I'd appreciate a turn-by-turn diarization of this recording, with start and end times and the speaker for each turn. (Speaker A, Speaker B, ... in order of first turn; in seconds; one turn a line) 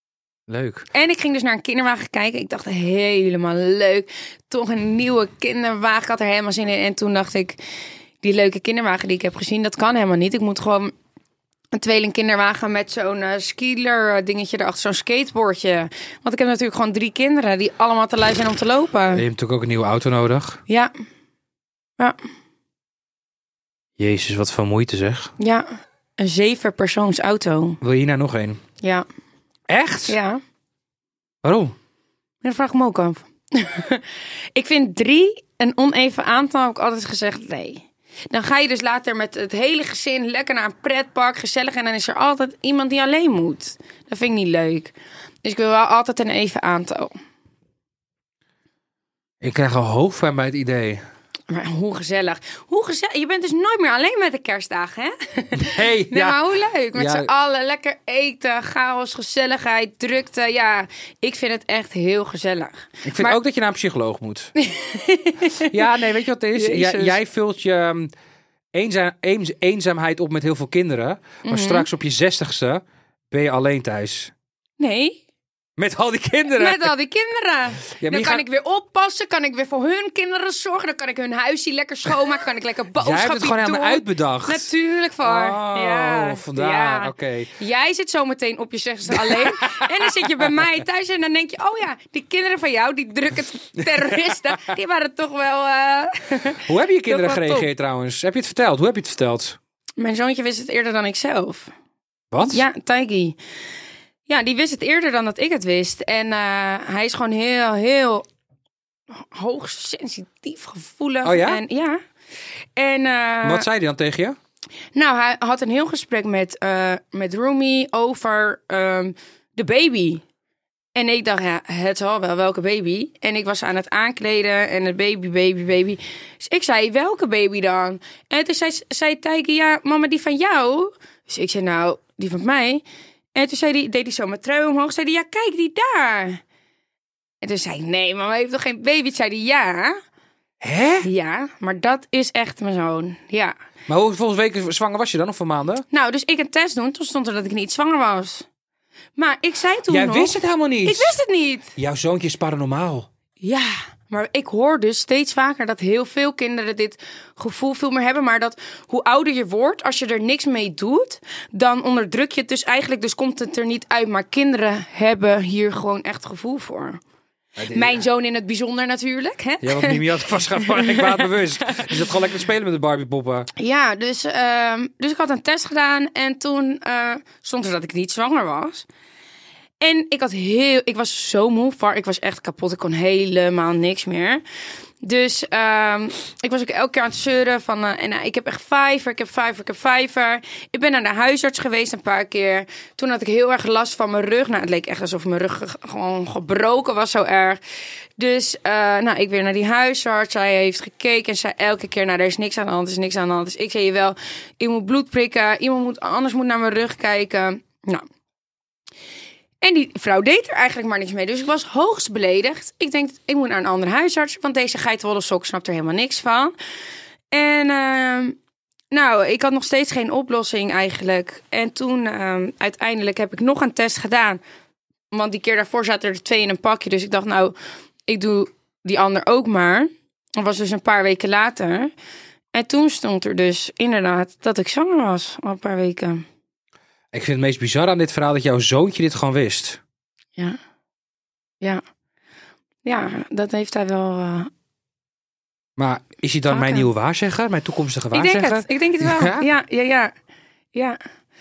Speaker A: 0.5-0.9
Speaker B: 0.9-7.6
Speaker B: 8.2-10.9
Speaker B: 11.7-19.2
Speaker A: 19.1-20.6
Speaker A: 24.0-25.3
Speaker B: 25.4-25.7
Speaker B: 26.2-27.8
Speaker A: 27.8-28.6
Speaker B: 28.8-29.1
Speaker A: 29.7-30.2
Speaker B: 30.1-30.4
Speaker A: 31.4-31.7
Speaker B: 32.4-47.1
Speaker A: 49.4-51.0
Speaker B: 51.5-63.4
Speaker A: 55.6-56.4
Speaker A: 56.9-57.3
Speaker A: 63.0-64.5
Speaker B: 64.6-65.9
Speaker A: 65.7-68.1
Speaker B: 66.5-67.2
Speaker A: 68.7-74.3
Speaker B: 71.4-71.9
Speaker B: 74.8-75.2
Speaker A: 75.8-76.9
Speaker B: 76.5-97.7
Speaker A: 78.0-78.4
Speaker A: 83.0-87.5
Speaker A: 89.1-90.6
Speaker A: 93.8-94.7
Speaker A: 96.6-99.6
Speaker B: 100.0-101.7
Speaker A: 102.3-102.6
Speaker B: 102.5-103.4
Speaker B: 104.3-108.2
Speaker B: 109.1-112.0
Speaker A: 111.2-111.6
Speaker B: 112.8-113.7
Speaker A: 113.4-114.4
Speaker B: 115.0-120.2
Speaker B: 120.9-132.8
Speaker B: 133.3-136.4
Speaker B: 137.4-140.0
Speaker A: 140.6-141.1
Speaker B: 141.0-143.5
Speaker A: 143.9-145.8
Speaker B: 145.9-148.4
Speaker B: 149.2-151.7
Speaker A: 149.9-151.2
Speaker A: 151.8-153.1
Speaker B: 153.4-167.0
Speaker A: 167.6-168.0
Speaker B: 167.7-172.0
Speaker A: 169.6-173.5
Speaker B: 173.6-178.8
Speaker B: 179.8-184.4
Speaker B: 185.0-197.6
Speaker B: 198.2-208.1
Speaker B: 209.6-216.5
Speaker B: 217.3-218.4
Speaker B: 218.9-224.4
Speaker B: 225.1-227.5
Speaker B: 228.1-231.9
Speaker B: 232.5-236.2
Speaker A: 237.1-239.8
Speaker B: 242.8-244.5
Speaker A: 245.8-249.5
Speaker B: 246.5-246.9
Speaker B: 248.1-250.1
Speaker B: 250.7-251.0